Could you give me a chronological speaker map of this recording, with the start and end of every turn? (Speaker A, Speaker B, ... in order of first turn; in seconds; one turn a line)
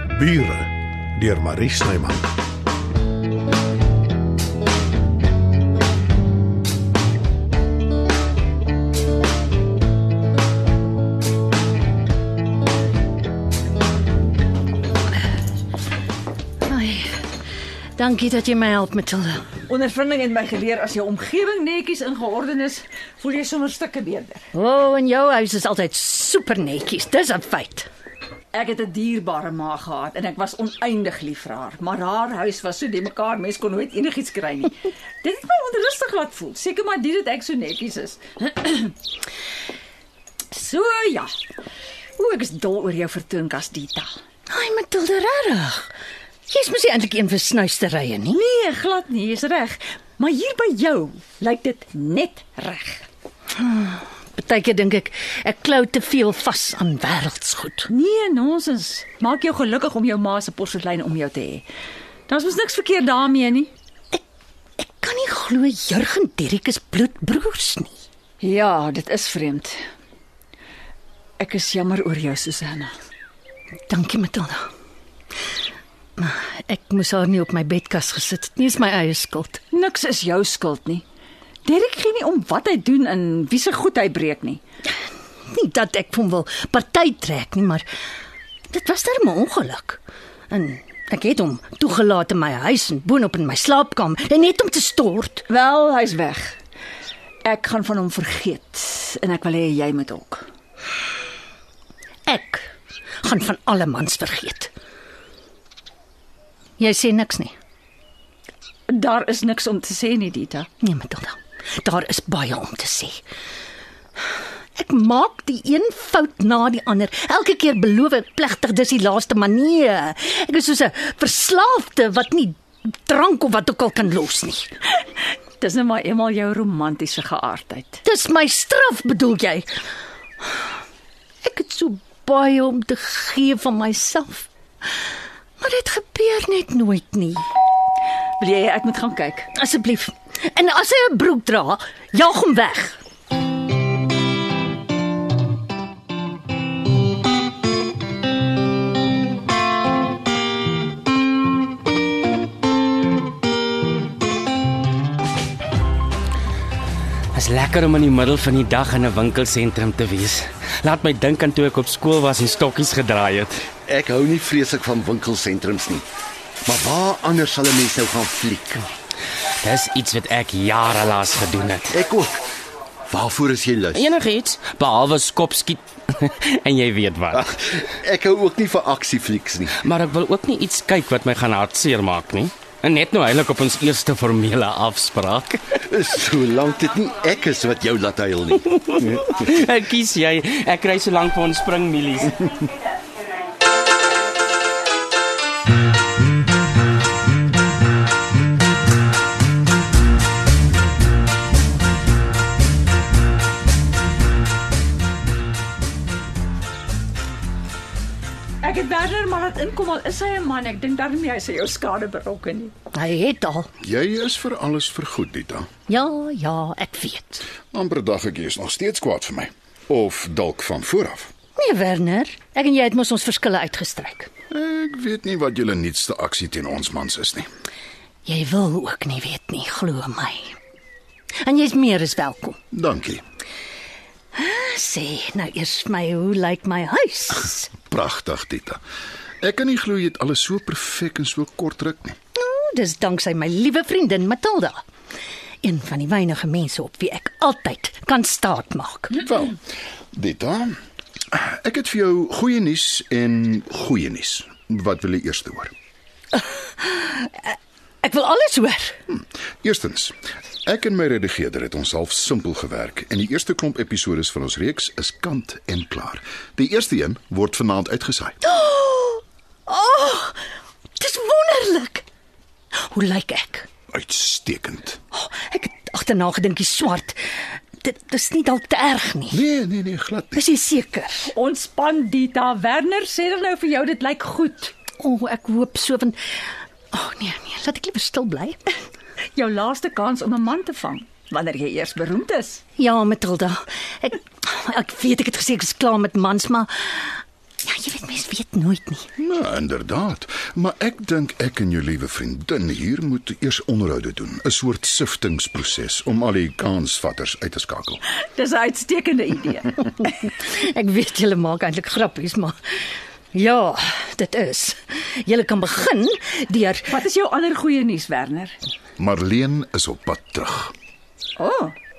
Speaker A: 0.1-2.3
Speaker B: 16.6-17.3
Speaker B: 17.9-19.4
Speaker C: 19.7-24.4
Speaker B: 24.5-27.9
Speaker C: 28.5-38.9
Speaker C: 40.5-41.3
Speaker C: 42.2-44.1
Speaker B: 44.5-45.9
Speaker B: 46.5-48.4
Speaker C: 48.3-53.0
Speaker B: 53.5-57.9
Speaker C: 57.9-61.6
Speaker C: 62.3-63.7
Speaker B: 64.8-68.0
Speaker C: 68.4-69.8
Speaker C: 71.4-72.9
Speaker B: 73.9-74.7
Speaker B: 76.2-79.6
Speaker C: 79.7-81.0
Speaker C: 81.6-84.6
Speaker B: 85.5-87.8
Speaker B: 88.7-95.5
Speaker C: 95.5-96.5
Speaker C: 97.4-100.4
Speaker B: 102.3-102.7
Speaker B: 103.2-104.7
Speaker B: 106.8-107.5
Speaker C: 108.9-110.7
Speaker B: 110.8-113.2
Speaker B: 114.8-124.7
Speaker C: 125.6-128.0
Speaker B: 128.0-129.7
Speaker B: 131.4-134.5
Speaker B: 135.6-137.5
Speaker C: 138.4-139.5
Speaker B: 139.5-143.0
Speaker D: 157.3-163.6
Speaker E: 163.8-166.1
Speaker E: 166.6-168.9
Speaker D: 169.6-172.0
Speaker E: 171.9-172.4
Speaker E: 173.1-174.0
Speaker D: 173.9-177.7
Speaker E: 177.3-179.8
Speaker D: 179.8-185.8
Speaker E: 185.9-189.2
Speaker D: 188.7-192.4
Speaker C: 208.6-212.7
Speaker B: 212.9-213.7
Speaker F: 213.8-215.8
Speaker B: 215.9-217.4
Speaker F: 217.7-221.3
Speaker B: 221.6-224.3
Speaker F: 224.5-227.5
Speaker B: 228.2-230.5
Speaker B: 231.4-232.6
Speaker F: 232.7-233.2
Speaker B: 234.3-237.8
Speaker F: 237.8-238.8
Speaker F: 239.4-242.2
Speaker B: 242.3-244.8
Speaker B: 245.6-249.2
Speaker F: 249.2-249.6
Speaker F: 250.1-250.8
Speaker F: 251.3-255.7
Speaker B: 256.3-258.9
Speaker F: 259.1-260.1
Speaker F: 260.6-268.4
Speaker B: 268.4-270.4
Speaker B: 271.0-272.0
Speaker B: 272.9-273.7
Speaker F: 273.9-275.0
Speaker B: 275.1-279.4
Speaker F: 279.3-280.4
Speaker B: 280.3-281.3
Speaker C: 281.3-284.7
Speaker B: 285.0-286.2
Speaker B: 286.9-288.6
Speaker C: 289.4-292.6
Speaker B: 292.8-299.1
Speaker F: 299.2-308.0
Speaker C: 308.3-309.8
Speaker B: 310.0-312.5
Speaker B: 313.3-316.9
Speaker C: 316.9-318.6
Speaker F: 319.0-320.7
Speaker C: 321.4-321.7